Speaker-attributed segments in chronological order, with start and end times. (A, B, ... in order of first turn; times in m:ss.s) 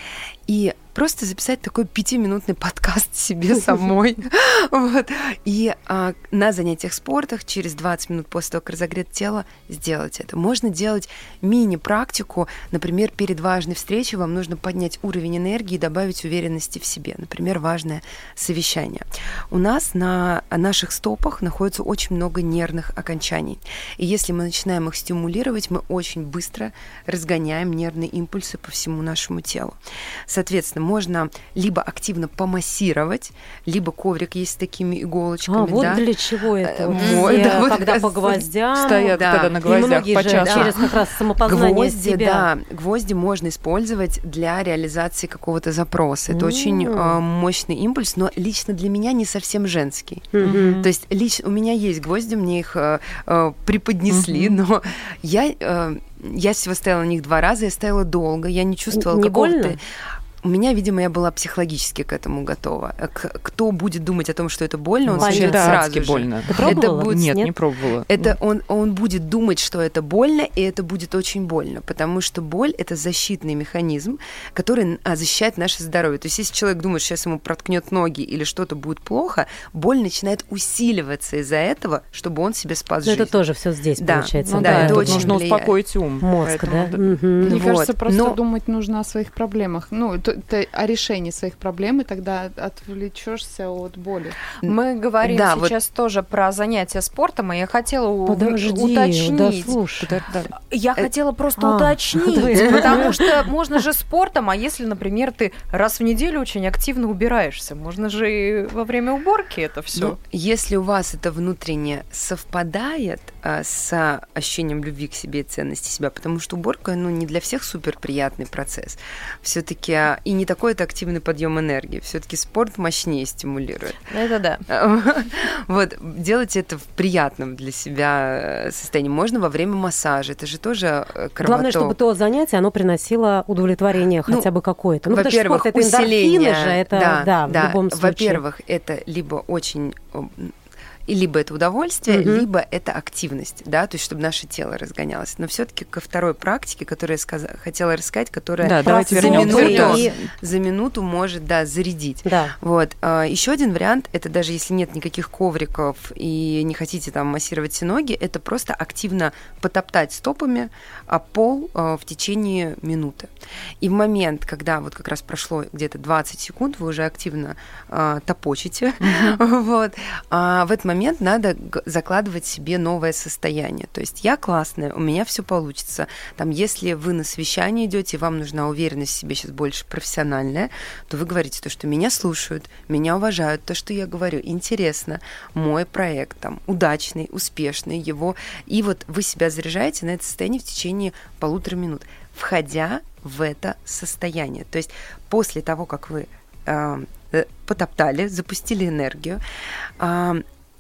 0:00.5-0:36.1 A
0:35.5-0:42.5 B
0:36.6-0:40.9 A
0:37.0-0:37.4 C
0:38.8-0:40.9 D
0:41.4-0:59.8 A
0:46.3-0:47.2 B
0:50.3-0:50.8 B
0:50.4-0:50.9 D
0:54.1-0:54.6 D
0:58.9-0:59.8 B
1:00.4-1:07.6 A
1:05.0-1:08.4 D
1:05.2-1:05.9 B
1:06.5-1:07.5 B
1:08.1-1:23.4 A
1:23.0-1:25.4 B
1:24.0-1:25.8 A
1:24.4-1:27.3 D
1:26.2-1:27.6 B
1:27.4-1:28.4 A
1:27.4-1:34.4 E
1:34.6-1:39.8 C
1:34.6-1:35.8 A
1:38.3-1:40.1 B
1:40.0-1:40.5 D
1:40.6-1:50.2 C
1:41.6-1:43.3 B
1:49.9-2:04.1 A
2:04.1-2:04.7 C
2:04.7-2:12.0 A
2:11.4-2:18.4 B
2:15.1-2:20.6 A
2:21.1-3:19.4 A
2:22.1-2:22.5 B
2:28.6-2:30.2 D
2:28.8-2:30.2 B
2:32.2-2:32.6 B
2:49.0-2:49.4 D
3:20.0-3:20.4 A